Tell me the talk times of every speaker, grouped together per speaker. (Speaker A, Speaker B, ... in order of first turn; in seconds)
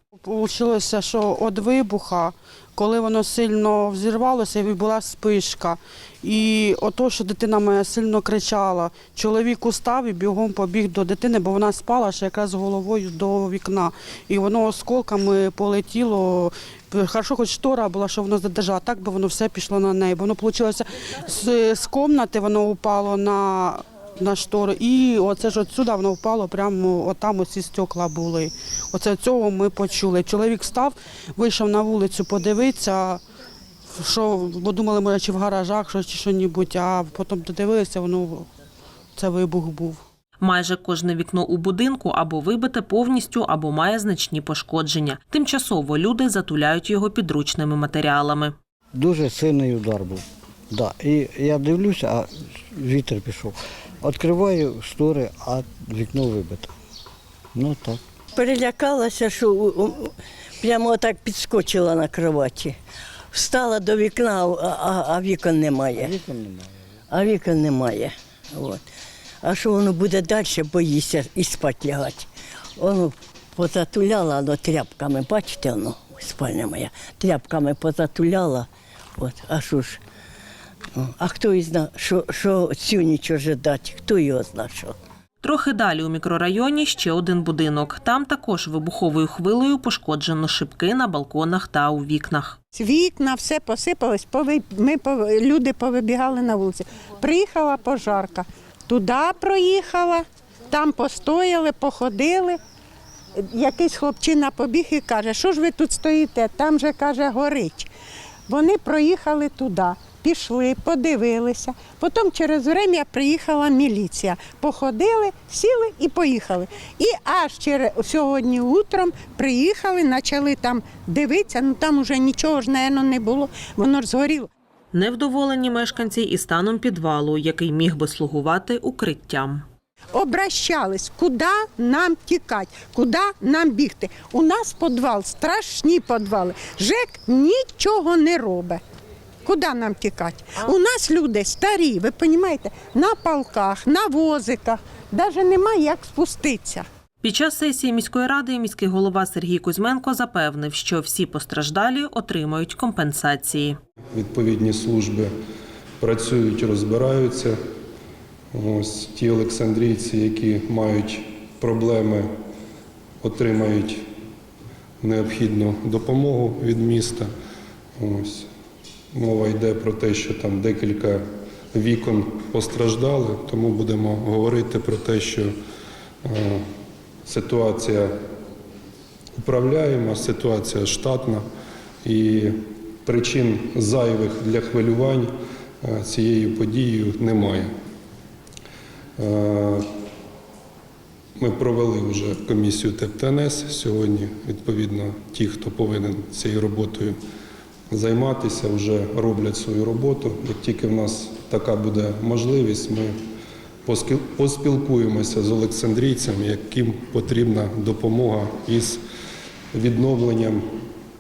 Speaker A: 0.2-33.2, 34.0-38.5, 39.1-40.0
Speaker B: 40.4-48.5, 85.4-92.6, 124.9-129.7, 147.2-153.8
Speaker C: 48.9-56.7, 57.5-58.0, 65.9-66.7
Speaker D: 58.3-62.8, 63.3-66.2, 67.1-68.8, 69.4-80.0, 81.0-85.0
Speaker E: 92.7-102.6, 103.4-107.9, 108.5-124.5, 130.1-138.8, 139.4-146.8
Speaker F: 154.1-155.3, 156.0-157.6, 158.5-162.3, 163.2-164.0, 165.0-167.3, 168.0-168.5, 169.1-171.2, 171.7-175.5, 176.2-176.6, 177.2-178.1, 179.4-181.4, 182.0-185.3, 185.8-187.7, 189.2-189.8, 191.4-197.2, 197.9-203.1, 203.8-209.0, 209.7-210.6